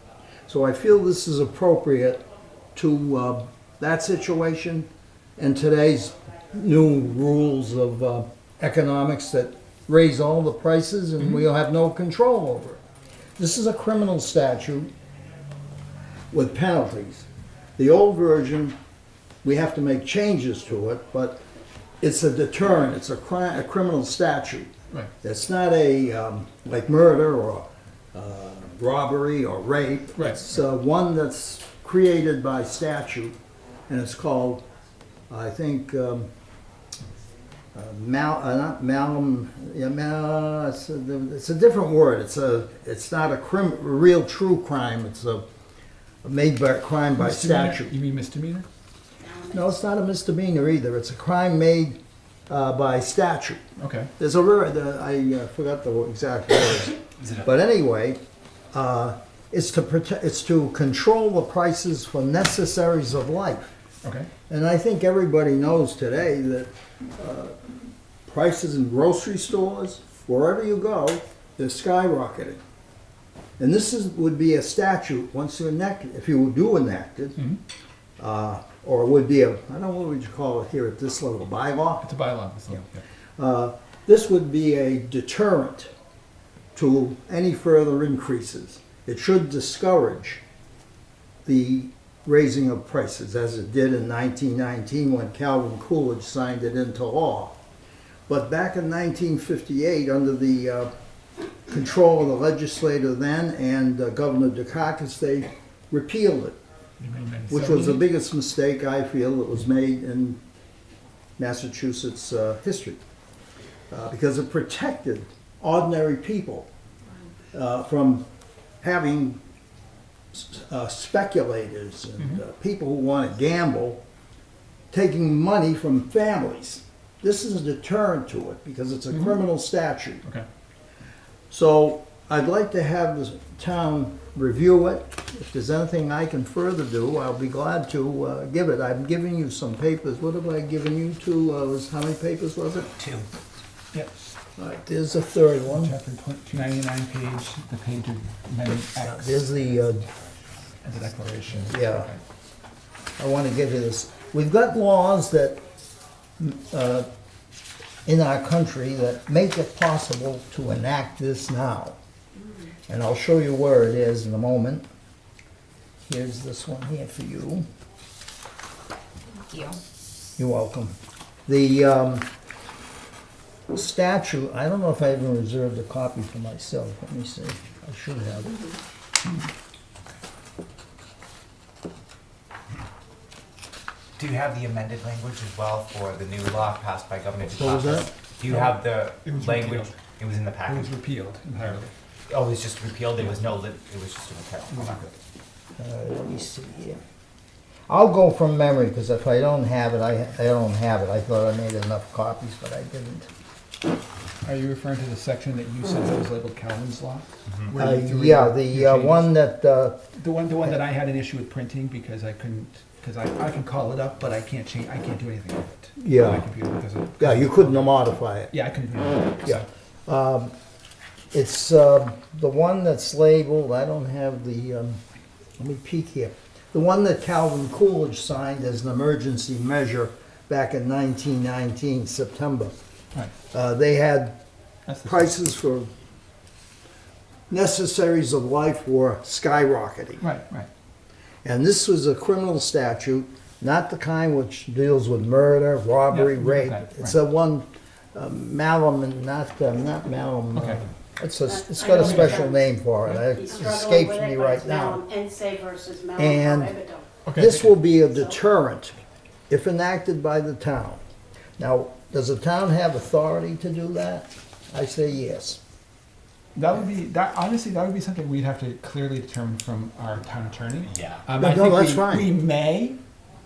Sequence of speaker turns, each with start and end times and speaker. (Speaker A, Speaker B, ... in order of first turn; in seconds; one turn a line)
Speaker A: 0.5-2.2
Speaker A: 2.8-12.8
Speaker A: 13.4-14.9
Speaker A: 16.3-18.8
Speaker A: 19.4-21.4
Speaker A: 22.0-33.4
Speaker A: 33.9-34.6
Speaker A: 35.3-36.3
Speaker A: 37.7-45.4
Speaker A: 46.2-47.9
Speaker B: 47.2-48.7
Speaker C: 49.2-49.6
Speaker A: 49.5-52.0
Speaker A: 52.5-53.6
Speaker B: 53.8-54.1
Speaker A: 54.2-58.2
Speaker A: 58.7-63.7
Speaker A: 64.5-67.5
Speaker A: 68.3-72.6
Speaker A: 73.6-77.5
Speaker A: 78.2-82.1
Speaker B: 82.0-83.0
Speaker A: 83.4-85.9
Speaker A: 86.8-90.4
Speaker A: 91.5-97.6
Speaker A: 98.3-100.9
Speaker A: 101.7-106.6
Speaker B: 107.0-108.0
Speaker A: 107.5-110.4
Speaker A: 111.4-113.0
Speaker A: 113.9-116.7
Speaker A: 117.5-118.3
Speaker A: 118.8-119.4
Speaker A: 120.3-124.0
Speaker A: 124.9-130.2
Speaker A: 131.5-143.0
Speaker D: 143.0-143.2
Speaker A: 144.6-145.9
Speaker B: 145.7-149.4
Speaker A: 149.0-150.1
Speaker B: 150.8-152.2
Speaker A: 151.7-152.1
Speaker A: 153.2-155.6
Speaker A: 156.4-157.1
Speaker A: 158.1-162.0
Speaker A: 162.9-164.9
Speaker A: 166.1-167.7
Speaker A: 170.4-172.3
Speaker A: 173.7-178.7
Speaker D: 184.2-190.9
Speaker A: 187.5-188.1
Speaker B: 188.5-190.0
Speaker B: 190.7-191.9
Speaker D: 192.3-195.1
Speaker B: 194.7-195.1
Speaker A: 195.8-197.0
Speaker A: 197.9-203.3
Speaker B: 204.4-209.3
Speaker A: 207.8-210.0
Speaker B: 210.2-218.0
Speaker A: 216.0-216.5
Speaker A: 217.2-218.6
Speaker B: 218.5-219.7
Speaker A: 219.4-220.5
Speaker A: 221.3-225.0
Speaker A: 225.6-232.7
Speaker A: 233.5-234.4
Speaker B: 234.9-235.3
Speaker A: 235.0-235.9
Speaker A: 237.5-240.3
Speaker B: 240.2-240.7
Speaker A: 241.4-255.0
Speaker B: 246.1-247.2
Speaker B: 250.6-250.8
Speaker C: 251.5-252.6
Speaker B: 252.0-252.3
Speaker C: 253.3-257.2
Speaker A: 256.2-256.7
Speaker B: 257.2-257.7
Speaker A: 257.4-259.0
Speaker A: 259.5-261.0
Speaker A: 261.6-265.6
Speaker B: 266.6-273.0
Speaker A: 271.4-272.3